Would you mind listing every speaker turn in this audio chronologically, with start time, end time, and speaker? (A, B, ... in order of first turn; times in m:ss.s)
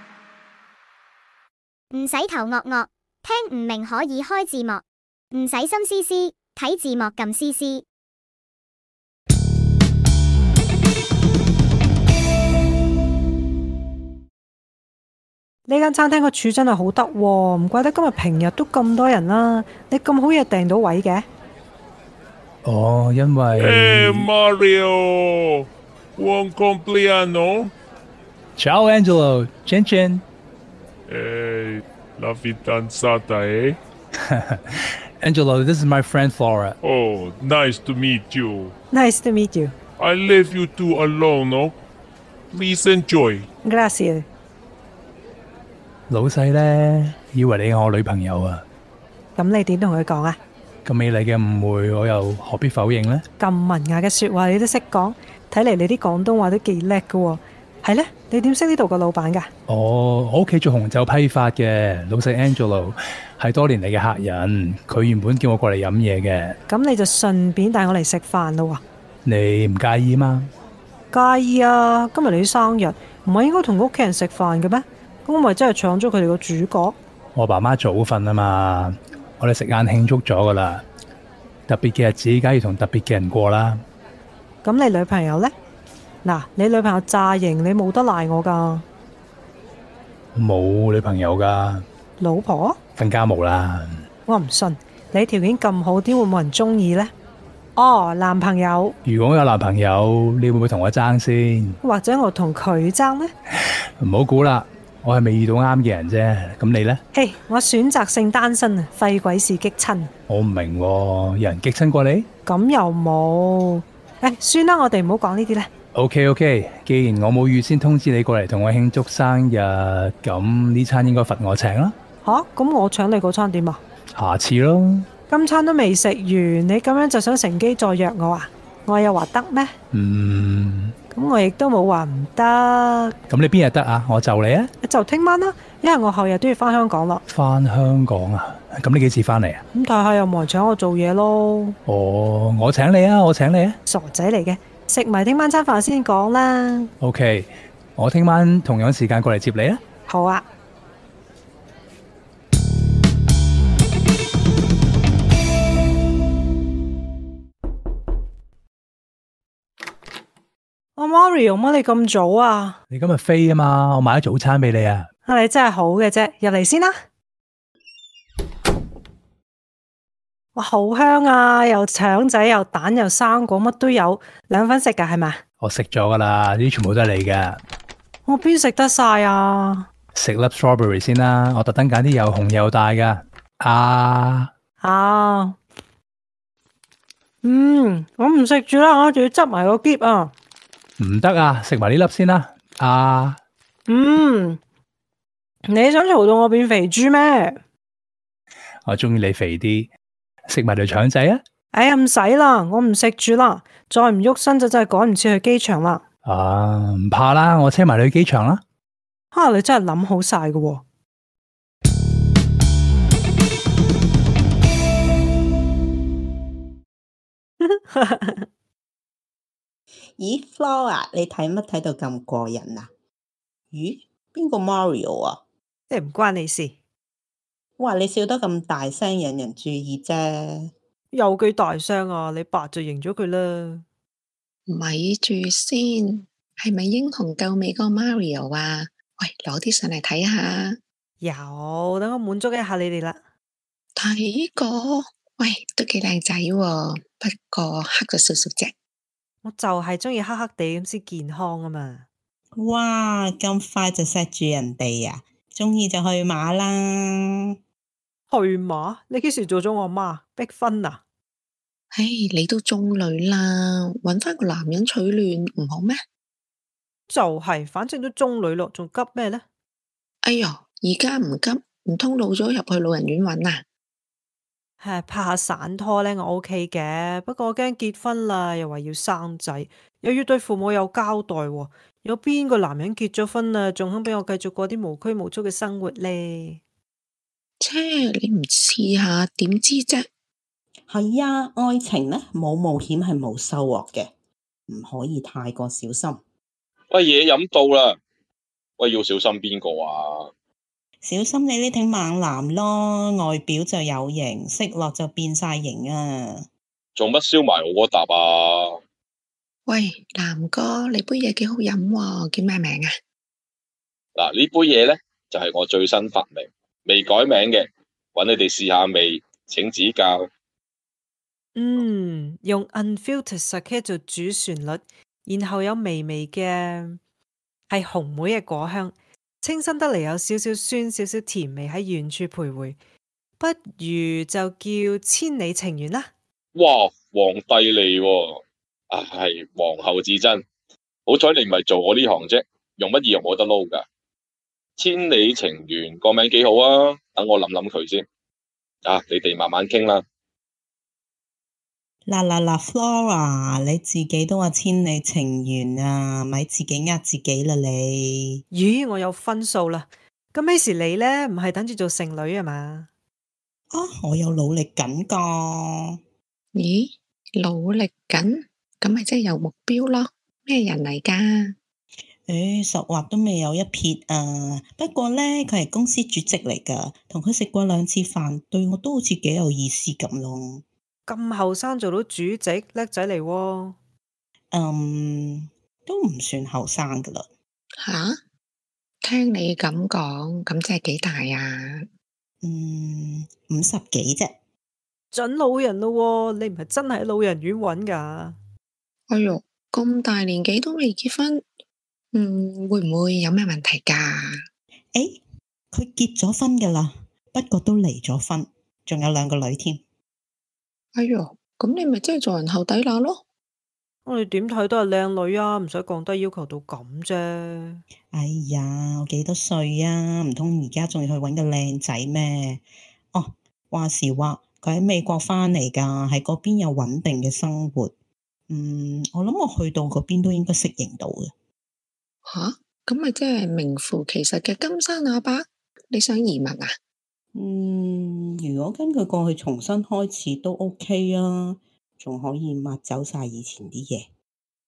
0:01.9-0:07.8 A
0:15.7-0:21.3 B
0:22.6-0:24.3 C
0:23.6-0:25.0 D
0:26.3-0:27.7 D
0:28.6-0:30.2 C
0:32.2-0:33.8 D
0:34.3-0:36.8 C
0:36.9-0:38.7 D
0:38.9-0:39.7 B
0:40.0-0:41.7 D
0:42.6-0:43.5 D
0:43.6-0:44.3 B
0:46.1-0:48.6 C
0:49.4-0:50.4 B
0:50.8-0:53.2 C
0:53.4-0:59.5 B
0:59.7-1:06.6 C
1:06.7-1:08.8 B
1:09.2-1:10.5 C
1:11.1-1:17.0 B
1:17.4-1:20.8 C
1:21.7-1:23.8 C
1:24.6-1:25.5 B
1:26.2-1:28.8 B
1:30.4-1:31.8 C
1:32.2-1:32.8 B
1:33.0-1:34.0 C
1:34.3-1:37.1 B
1:37.8-1:39.0 B
1:39.0-1:41.8 C
1:41.8-1:43.3 B
1:44.0-1:47.0 C
1:47.1-1:50.1 B
1:50.3-1:52.3 C
1:52.5-1:55.7 B
1:55.9-2:02.0 C
2:02.2-2:03.8 B
2:04.2-2:05.1 C
2:05.3-2:09.7 B
2:09.9-2:10.9 C
2:11.1-2:13.2 B
2:13.3-2:14.7 C
2:14.8-2:17.2 B
2:17.3-2:19.6 C
2:19.7-2:21.8 B
2:21.9-2:23.8 C
2:23.9-2:26.9 B
2:27.0-2:29.8 C
2:30.1-2:30.4 B
2:41.0-2:42.8 B
2:42.9-2:45.1 C
2:45.3-2:46.9 B
2:50.5-2:55.4 B
2:55.6-2:57.6 C
2:58.3-2:59.9 B
3:00.2-3:04.5 C
3:04.8-3:05.6 B
3:07.4-3:10.3 B
3:11.0-3:13.4 C
3:13.9-3:14.6 B
3:15.7-3:17.6 B
3:18.8-3:19.9 C
3:20.5-3:21.4 C
3:21.7-3:26.0 B
3:26.2-3:28.6 C
3:29.3-3:30.8 B
3:37.7-3:38.4 B
3:40.2-3:42.9 E
3:43.7-3:45.4 E
3:45.9-3:46.8 B
3:47.8-3:50.7 E
3:51.1-3:53.8 B
3:54.7-4:00.8 F
4:01.2-4:03.2 B
4:04.0-4:08.7 F
4:09.4-4:12.1 B
4:12.6-4:17.6 E
4:18.3-4:21.0 B
4:21.9-4:26.0 F
4:27.1-4:29.4 B
4:30.2-4:33.6 F
4:34.8-4:46.6 B
4:47.6-4:50.0 F
4:50.9-4:54.1 E
4:54.7-4:56.2 E
4:56.9-4:58.0 G
4:58.8-5:00.3 G
5:01.0-5:06.5 E
5:07.0-5:08.8 G
5:09.7-5:12.9 F
5:14.2-5:20.3 G
5:21.6-5:27.0 B
5:27.7-5:32.8 B
5:33.4-5:36.1 B
5:36.6-5:40.4 G
5:41.1-5:43.8 G
5:44.8-5:48.0 G
5:48.8-5:50.0 G
5:52.1-5:58.4 E
5:58.5-6:02.9 B
6:03.7-6:06.0 E
6:06.6-6:11.5 F
6:12.3-6:20.6 E
6:21.1-6:23.8 B
6:24.5-6:27.3 E
6:27.8-6:28.2 F
6:29.0-6:31.8 F
6:32.4-6:34.4 E
6:35.1-6:38.4 B
6:39.1-6:41.4 F
6:42.1-6:44.4 F
6:44.9-6:45.2 E
6:45.7-6:49.8 E
6:51.0-6:53.2 F
6:54.0-6:57.8 B
6:58.1-7:02.6 E
7:03.1-7:07.9 E
7:08.5-7:11.3 E
7:12.2-7:16.7 F
7:17.3-7:24.1 E